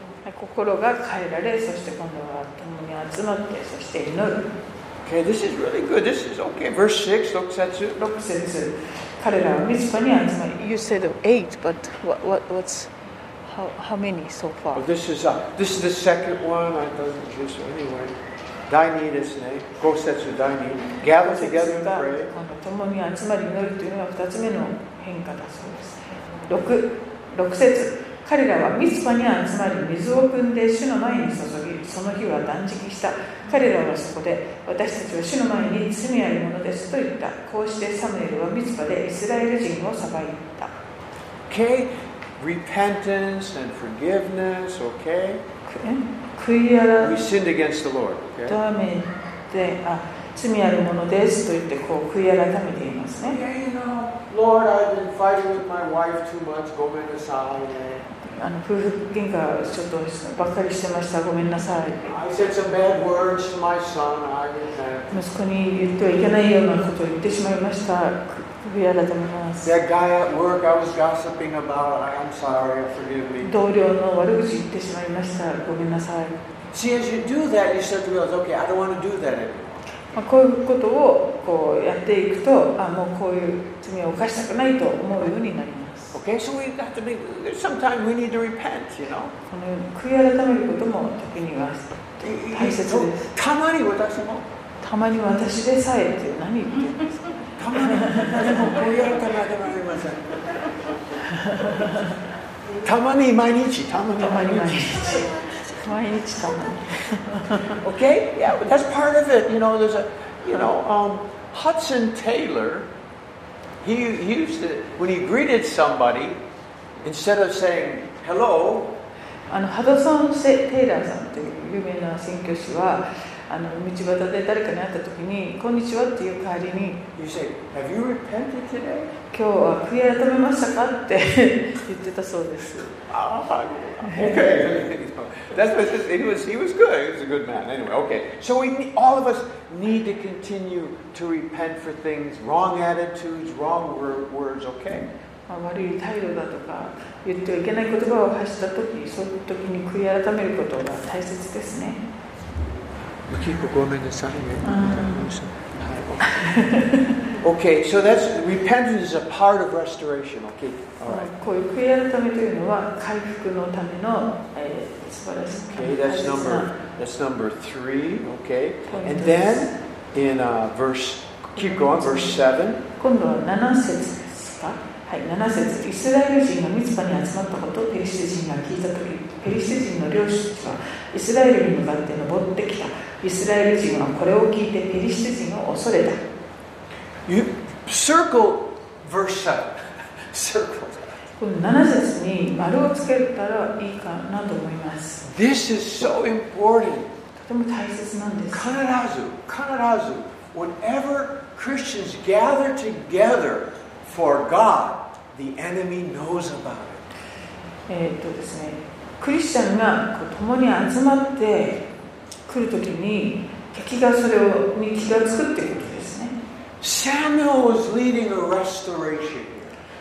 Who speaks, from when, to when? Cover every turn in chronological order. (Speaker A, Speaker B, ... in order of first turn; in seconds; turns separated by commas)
Speaker A: 0.2-4.4, Speaker B: 5.0-8.0, Speaker A: 8.0-12.9, Speaker A: 13.4-14.9, Speaker B: 14.7-18.1, Speaker B: 18.7-22.3, Speaker A: 21.1-40.7, Speaker B: 41.5-45.4, Speaker A: 45.7-47.2, Speaker B: 47.0-48.6, Speaker A: 48.5-53.4, Speaker B: 53.2-58.0, Speaker A: 58.1-62.2, Speaker B: 62.0-65.1, Speaker A: 65.1-69.7, Speaker B: 69.6-73.5, Speaker A: 73.4-76.4, Speaker B: 76.7-79.8, Speaker A: 80.1-86.2, Speaker B: 86.1-89.3, Speaker A: 89.5-93.3, Speaker B: 92.2-94.5, Speaker A: 94.8-98.8, Speaker B: 97.6-101.0, Speaker A: 101.3-102.2, Speaker B: 101.6-102.1, Speaker B: 102.8-105.2, Speaker A: 104.2-107.8, Speaker B: 107.8-112.9, Speaker B: 113.8-116.4, Speaker B: 117.0-118.9, Speaker A: 119.5-127.1, Speaker B: 127.2-129.1, Speaker A: 129.3-133.0, Speaker B: 133.1-145.1, Speaker A: 134.0-134.5, Speaker A: 145.5-152.0, Speaker B: 153.3-156.6, Speaker A: 154.6-155.3, Speaker A: 156.2-157.3, Speaker B: 157.4-161.3, Speaker A: 161.1-166.7, Speaker B: 165.7-172.8, Speaker A: 168.9-169.7, Speaker A: 171.6-172.4, Speaker A: 173.0-186.2, Speaker B: 187.3-189.8, Speaker B: 190.3-191.2, Speaker A: 191.4-195.2, Speaker B: 195.2-197.1, Speaker A: 197.4-198.7, Speaker B: 198.5-207.1, Speaker A: 207.9-211.9, Speaker A: 212.5-216.4, Speaker B: 216.8-219.8